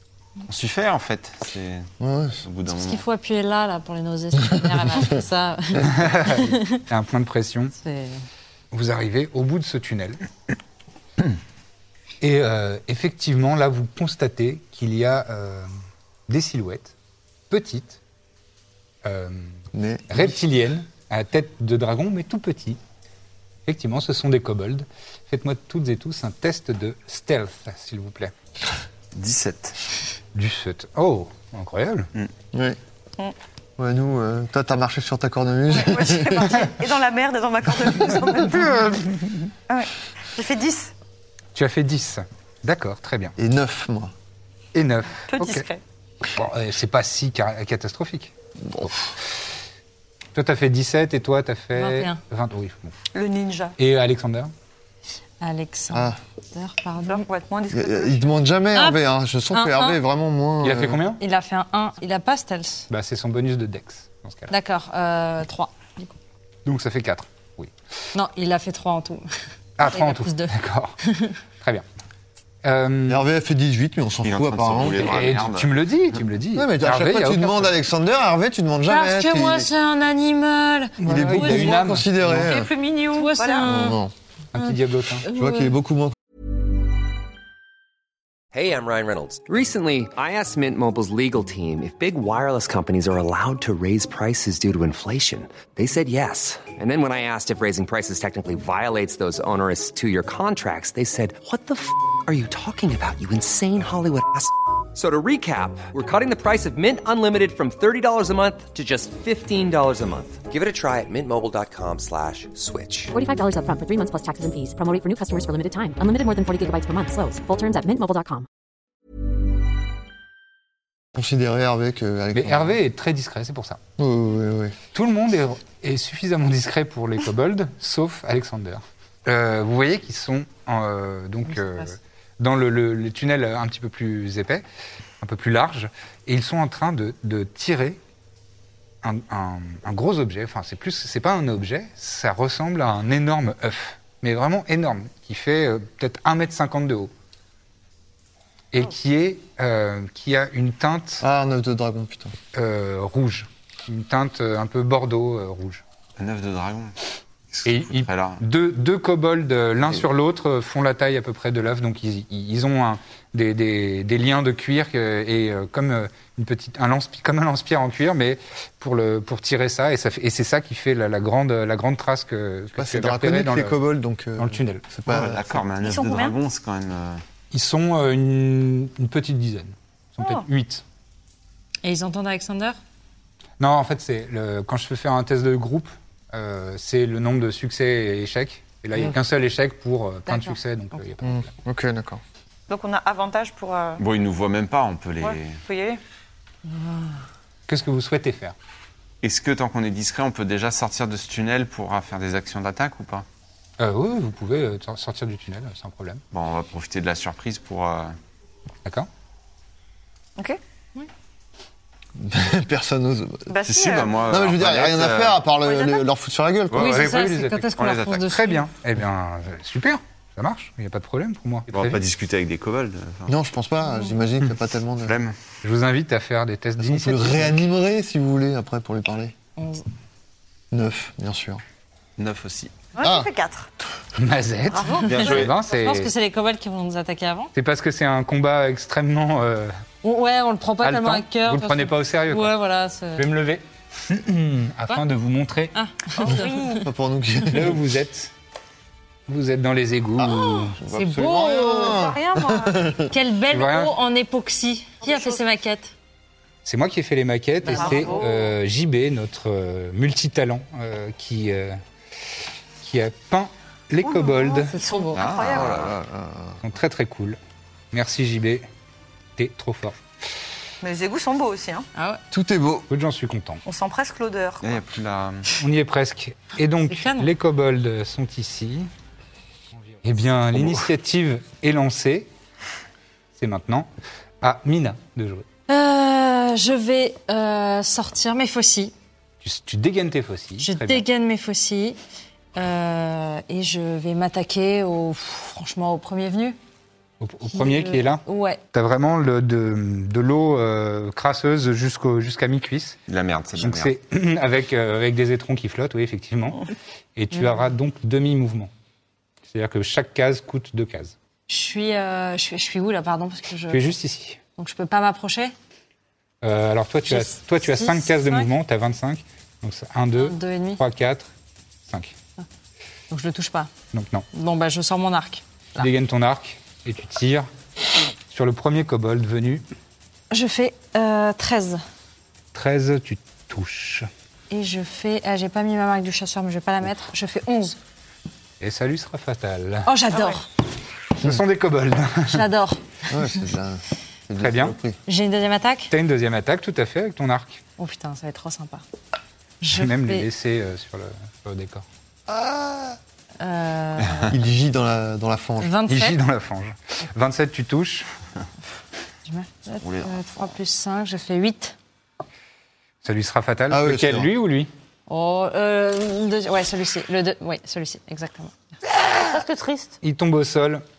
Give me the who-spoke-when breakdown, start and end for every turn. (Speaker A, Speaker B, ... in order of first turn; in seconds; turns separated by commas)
Speaker A: 0.5-1.9, Speaker B: 2.0-2.4, Speaker A: 2.4-3.0, Speaker C: 2.7-6.8, Speaker D: 5.8-7.7, Speaker C: 7.8-8.2, Speaker D: 8.7-10.2, Speaker D: 12.2-15.7, Speaker D: 16.3-16.9, Speaker D: 17.5-18.0, Speaker D: 19.0-19.6, Speaker B: 19.7-20.4, Speaker D: 20.1-22.8, Speaker D: 23.7-28.3, Speaker A: 29.1-29.8, Speaker D: 30.3-32.1, Speaker B: 32.5-32.8, Speaker B: 33.8-36.7, Speaker E: 35.7-39.0, Speaker E: 39.7-40.9, Speaker D: 41.5-43.3, Speaker B: 43.4-44.1, Speaker D: 44.7-45.6, Speaker E: 45.3-45.8, Speaker D: 46.3-48.3, Speaker B: 48.6-49.1, Speaker D: 50.4-52.9, Speaker C: 51.7-52.2, Speaker E: 53.1-53.8, Speaker D: 53.8-54.5, Speaker C: 55.4-57.3, Speaker B: 55.9-56.2, Speaker E: 57.1-58.3, Speaker B: 57.7-61.0, Speaker C: 58.7-59.0, Speaker C: 59.5-60.0, Speaker D: 60.6-61.2, Speaker C: 61.2-62.9, Speaker D: 62.9-64.5, Speaker C: 64.5-66.2, Speaker D: 66.7-67.7, Speaker C: 68.1-69.3, Speaker D: 69.8-71.0, Speaker C: 69.8-71.4, Speaker D: 71.6-71.8, Speaker D: 72.6-73.2, Speaker B: 73.1-75.3, Speaker A: 74.2-75.7, Speaker D: 74.9-77.7, Speaker B: 76.5-79.7, Speaker C: 78.9-82.0, Speaker D: 81.0-82.5, Speaker B: 81.0-82.7, Speaker E: 82.3-83.7, Speaker C: 83.1-84.0, Speaker B: 83.6-84.1, Speaker D: 84.5-85.3, Speaker C: 84.6-85.7, Speaker B: 85.3-86.2, Speaker F: 88.5-113.1, Speaker G: 113.1-118.5, Speaker B: 121.2-122.8, Speaker D: 122.3-123.8, Speaker B: 124.0-124.8, Speaker D: 124.9-134.6, Speaker C: 131.5-131.9, Speaker D: 135.2-138.0, Speaker D: 139.0-147.1, Speaker D: 148.7-151.2, Speaker B: 151.2-152.3, Speaker D: 152.5-155.8, Speaker A: 156.2-156.9, Speaker A: 157.5-158.4, Speaker D: 157.7-173.8, Speaker B: 172.8-175.6, Speaker D: 174.4-174.9, Speaker A: 175.1-177.2, Speaker E: 175.8-176.4, Speaker D: 177.5-180.8, Speaker E: 180.2-180.5, Speaker C: 181.8-182.8, Speaker D: 183.6-191.5, Speaker C: 190.3-191.0, Speaker B: 191.2-192.2, Speaker E: 192.7-194.0, Speaker A: 194.0-195.6, Speaker E: 195.2-196.0, Speaker C: 196.7-197.2, Speaker D: 197.7-198.6, Speaker A: 199.2-203.3, Speaker D: 203.8-206.2, Speaker A: 206.3-208.2, Speaker B: 212.2-213.5, Speaker E: 213.5-214.3, Speaker A: 213.7-215.4, Speaker B: 214.3-216.9, Speaker E: 215.6-216.0, Speaker A: 216.7-217.0, Speaker C: 216.8-218.7, Speaker D: 216.8-217.7, Speaker A: 217.8-218.3, Speaker D: 218.2-222.0, Speaker A: 221.7-223.3, Speaker B: 223.3-225.2, Speaker A: 225.0-225.4, Speaker D: 225.6-227.6, Speaker B: 226.8-229.3, Speaker C: 229.6-229.8, Speaker B: 230.7-231.6, Speaker A: 232.2-232.7, Speaker E: 232.9-233.7, Speaker B: 233.0-233.3, Speaker D: 234.2-236.1, Speaker E: 234.7-235.1, Speaker C: 234.9-237.5, Speaker A: 235.1-235.5, Speaker D: 237.6-239.7, Speaker C: 240.0-243.3, Speaker D: 240.8-242.6, Speaker D: 243.2-245.7, Speaker C: 245.7-246.9, Speaker E: 246.2-246.9, Speaker B: 246.8-247.8, Speaker D: 247.5-248.3, Speaker D: 249.3-250.8, Speaker B: 250.2-253.1, Speaker C: 250.6-252.2, Speaker E: 251.8-252.8, Speaker C: 253.1-255.9, Speaker D: 253.5-253.9, Speaker E: 255.0-255.4, Speaker D: 256.6-261.8, Speaker C: 257.6-258.4, Speaker E: 257.7-258.5, Speaker D: 262.8-264.7, Speaker E: 264.0-265.9, Speaker C: 264.7-265.3, Speaker A: 265.1-266.0, Speaker B: 265.5-266.6, Speaker D: 266.6-267.4, Speaker D: 267.9-268.7, Speaker D: 269.4-270.0, Speaker E: 270.8-271.9, Speaker C: 271.9-272.2, Speaker B: 272.3-272.9, Speaker D: 272.9-273.6, Speaker E: 273.7-274.8, Speaker A: 274.6-275.5, Speaker D: 275.6-278.9, Speaker C: 276.9-277.3, Speaker D: 280.0-282.3, Speaker A: 280.6-280.8, Speaker D: 283.4-283.9, Speaker D: 284.4-285.5, Speaker C: 285.7-288.9, Speaker D: 289.4-291.1, Speaker C: 290.6-292.0, Speaker C: 292.6-296.6, Speaker D: 297.2-303.0, Speaker C: 297.5-298.6, Speaker A: 303.1-303.9, Speaker D: 303.6-308.7, Speaker C: 307.3-307.7, Speaker D: 309.5-311.1, Speaker C: 311.5-314.0, Speaker D: 313.7-314.4, Speaker C: 314.6-315.5, Speaker D: 316.4-321.3, Speaker C: 317.1-318.5, Speaker C: 320.1-320.8, Speaker D: 321.9-322.1, Speaker C: 323.1-323.7, Speaker D: 323.9-324.3, Speaker C: 324.3-325.9, Speaker D: 325.8-327.5, Speaker D: 328.3-329.6, Speaker C: 330.3-331.8, Speaker D: 332.5-334.1, Speaker C: 334.5-337.8, Speaker D: 338.6-339.9, Speaker C: 339.9-340.4, Speaker E: 340.1-340.4, Speaker D: 341.2-342.5, Speaker C: 342.2-343.3, Speaker B: 343.1-345.0, Speaker D: 344.4-344.8, Speaker C: 345.1-345.9, Speaker D: 345.9-347.6, Speaker C: 347.8-348.8, Speaker C: 349.6-350.3, Speaker D: 349.7-351.9, Speaker B: 352.3-353.0, Speaker C: 353.4-354.3, Speaker B: 354.3-355.7, Speaker C: 355.6-356.2, Speaker D: 355.9-358.1, Speaker C: 359.2-361.8, Speaker A: 359.8-360.3, Speaker D: 363.0-364.7, Speaker B: 363.7-364.3, Speaker C: 365.1-368.8, Speaker E: 369.3-370.0, Speaker D: 370.0-370.8